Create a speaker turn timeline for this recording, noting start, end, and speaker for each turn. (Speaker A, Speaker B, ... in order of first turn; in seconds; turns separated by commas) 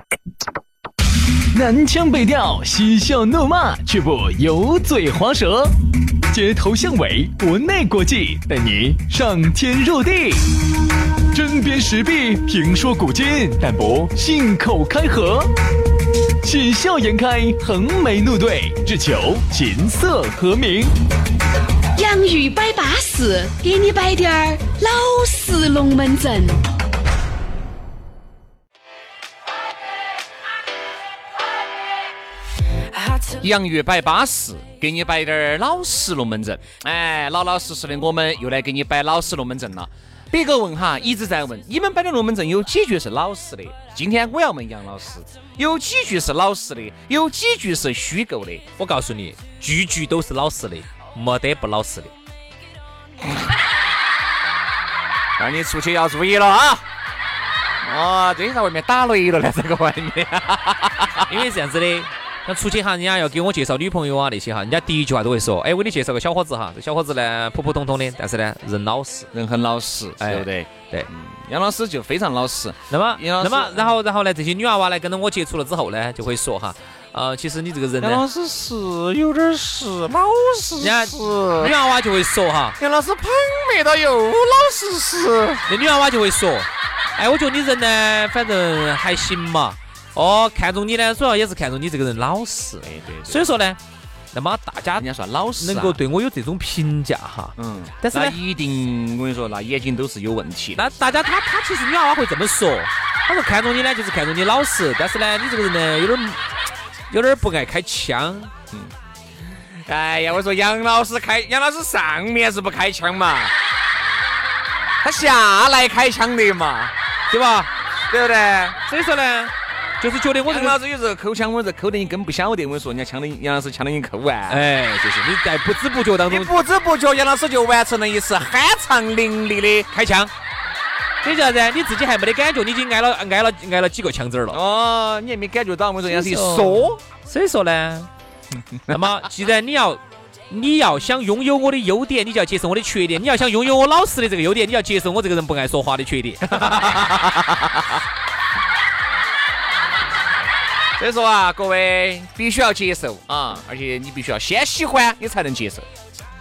Speaker A: 1.5-5.8, Speaker A: 6.3-10.5, Speaker A: 11.3-15.5, Speaker A: 16.4-20.9, Speaker B: 22.0-26.6, Speaker C: 33.4-48.6, Speaker D: 48.8-52.1, Speaker C: 55.4-56.9, Speaker C: 57.8-61.3, Speaker D: 61.3-69.3, Speaker C: 69.3-73.9, Speaker D: 70.2-71.1, Speaker D: 72.9-78.2, Speaker C: 78.0-81.7, Speaker D: 80.8-82.8, Speaker C: 82.8-85.6, Speaker D: 85.7-93.8, Speaker C: 92.8-93.5, Speaker D: 94.3-98.4, Speaker C: 95.0-96.0, Speaker C: 97.6-100.9, Speaker D: 100.8-106.4, Speaker D: 107.1-108.5, Speaker C: 109.9-113.5, Speaker C: 115.0-116.9, Speaker D: 117.3-117.7, Speaker C: 118.1-118.8, Speaker D: 118.8-120.8, Speaker C: 120.5-124.6, Speaker D: 124.5-126.6, Speaker C: 126.3-129.9, Speaker D: 129.9-130.3, Speaker D: 131.2-134.6, Speaker C: 134.5-137.0, Speaker D: 136.1-138.1, Speaker C: 138.8-139.0, Speaker D: 138.9-147.4, Speaker C: 146.5-147.8, Speaker C: 151.0-155.9